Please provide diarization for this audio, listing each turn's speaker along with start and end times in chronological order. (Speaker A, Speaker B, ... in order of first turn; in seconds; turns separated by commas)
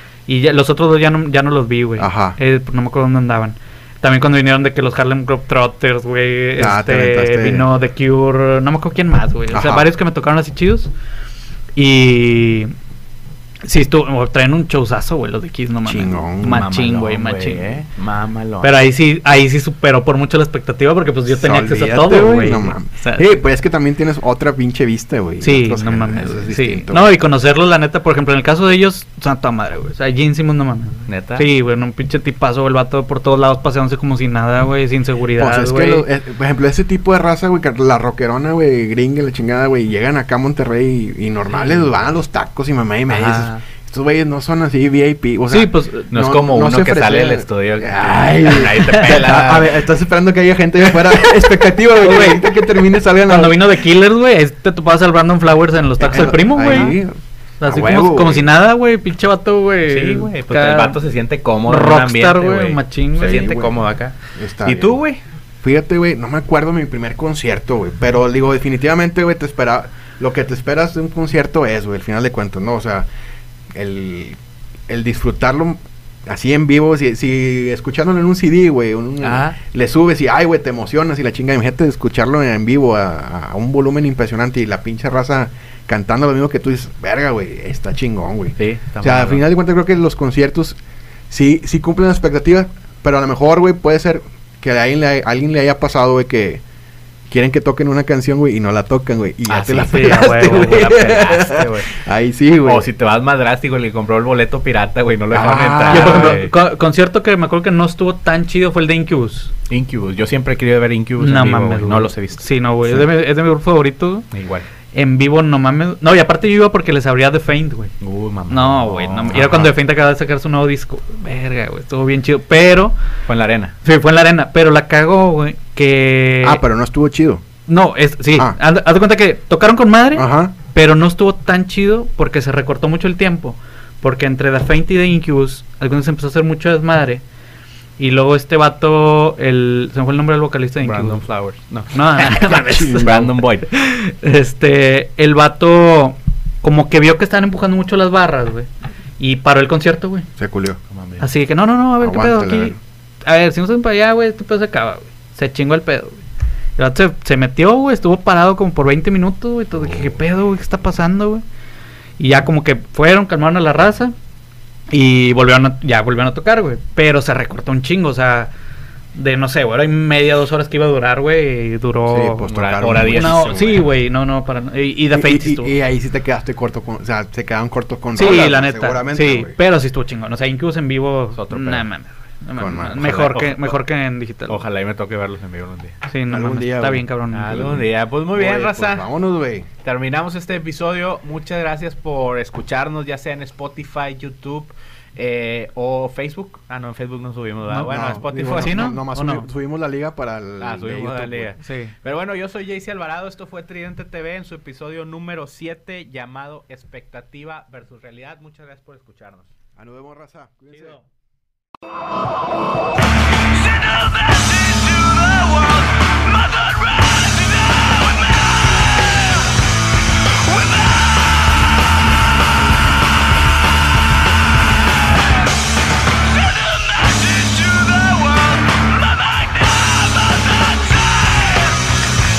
Speaker A: 0.3-10.9, Speaker B: 2.0-2.4, Speaker B: 6.6-7.7, Speaker B: 9.5-9.9, Speaker A: 11.7-12.7, Speaker A: 13.6-17.7, Speaker B: 15.8-16.7, Speaker C: 16.4-18.8, Speaker A: 18.6-23.3, Speaker B: 21.3-27.1, Speaker A: 25.4-36.0, Speaker C: 31.1-31.5, Speaker B: 35.4-53.7, Speaker C: 41.5-41.9, Speaker C: 43.1-43.6, Speaker A: 45.5-46.1, Speaker C: 46.1-49.8, Speaker A: 52.0-52.5, Speaker A: 53.2-57.0, Speaker B: 56.0-58.5, Speaker A: 57.6-61.0, Speaker C: 59.9-65.2, Speaker A: 61.6-63.6, Speaker B: 63.3-63.7, Speaker B: 64.4-65.0, Speaker B: 65.6-73.1, Speaker B: 73.7-90.8, Speaker C: 79.2-79.6, Speaker C: 88.6-89.4, Speaker B: 91.3-96.6, Speaker B: 97.3-102.9, Speaker C: 99.5-101.9, Speaker A: 99.9-101.0, Speaker C: 102.6-106.5, Speaker B: 105.3-106.5, Speaker A: 105.9-109.5, Speaker C: 109.7-113.1, Speaker A: 111.2-114.3, Speaker C: 114.3-114.6, Speaker A: 114.9-117.9, Speaker C: 118.0-119.5, Speaker A: 118.5-122.9, Speaker B: 119.3-119.7, Speaker C: 123.3-123.8, Speaker A: 123.8-126.6, Speaker B: 126.4-127.4, Speaker A: 127.7-137.2, Speaker B: 130.2-130.5, Speaker A: 138.0-141.2, Speaker C: 140.8-143.7, Speaker A: 141.9-148.7, Speaker A: 149.2-150.3, Speaker B: 150.4-150.8, Speaker C: 150.9-151.2, Speaker A: 151.2-156.2, Speaker B: 152.0-152.8, Speaker A: 156.8-161.4, Speaker A: 162.2-164.1, Speaker A: 164.9-168.5, Speaker A: 169.1-175.7, Speaker B: 172.1-173.4, Speaker C: 172.5-173.9, Speaker B: 175.1-179.6, Speaker A: 178.1-184.6, Speaker C: 181.3-181.8, Speaker B: 182.6-183.1, Speaker C: 183.0-183.7, Speaker C: 184.5-185.9, Speaker A: 186.1-187.7, Speaker B: 186.3-189.7, Speaker C: 187.3-189.1, Speaker C: 189.8-198.9, Speaker A: 197.7-199.5, Speaker B: 197.9-201.5, Speaker C: 200.6-209.5, Speaker A: 201.6-201.9, Speaker B: 209.8-210.9, Speaker C: 214.6-215.6